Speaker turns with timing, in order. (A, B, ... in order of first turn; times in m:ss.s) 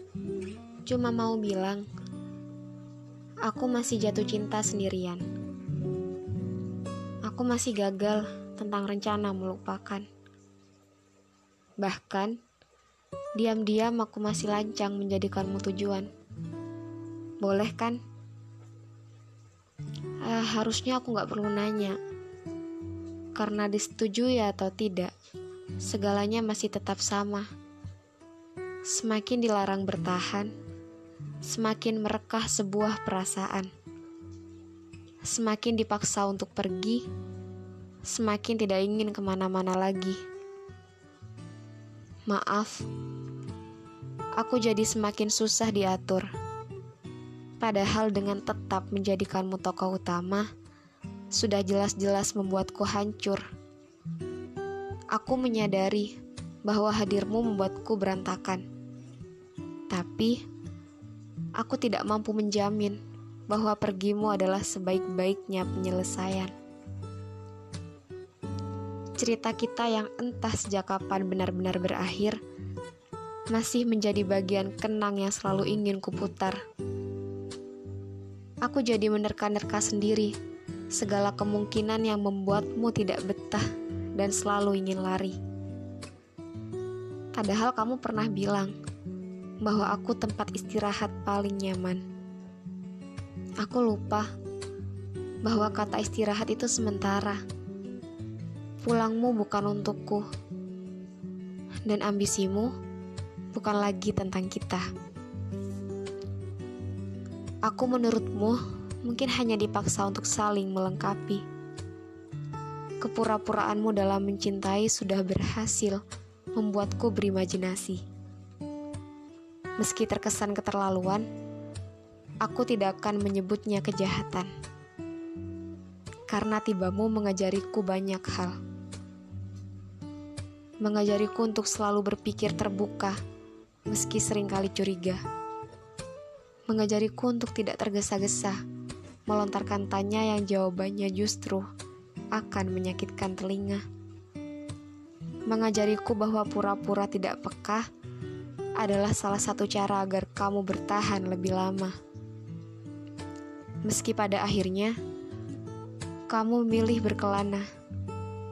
0:00.8-0:01.8 A
0:03.4-0:05.2 A
0:07.2-0:10.1 A
0:11.8-0:12.4 A
0:13.4-0:16.1 A
0:17.4-0:18.0 A
0:20.2-0:22.0 A
0:23.3-0:25.1 A
0:25.8-0:27.5 A
0:28.9-0:30.5 A
0:31.4-0:33.7 A
0:35.2-0:37.0 A
0:38.0-0:40.2 A
0:42.3-0:42.9 A
0:44.4-0:46.3 A
0:47.6-0:50.5 A
0:51.3-0:53.4 A
0:55.1-0:58.6 A
0:59.9-1:00.4 A
1:01.6-1:06.5 A
1:09.2-1:12.4 A
1:13.5-1:16.6 A
1:18.6-1:20.3 A
1:20.9-1:25.4 A
1:27.3-1:28.7 A
1:29.6-1:32.0 A
1:33.6-1:34.3 A
1:35.4-1:37.4 A
1:38.8-1:40.2 A
1:41.8-1:42.7 A
1:43.5-1:44.9 A
1:47.6-1:51.4 A
1:53.0-1:56.0 A
1:56.5-1:58.0 A
1:59.8-2:01.3 A
2:02.4-2:04.5 A
2:06.3-2:08.6 A
2:10.8-2:13.2 A
2:13.9-2:15.2 A
2:16.7-2:18.6 A
2:19.3-2:21.7 A
2:22.3-2:23.8 A
2:25.5-2:27.9 A
2:28.8-2:32.0 A
2:33.8-2:35.0 A
2:36.3-2:37.7 A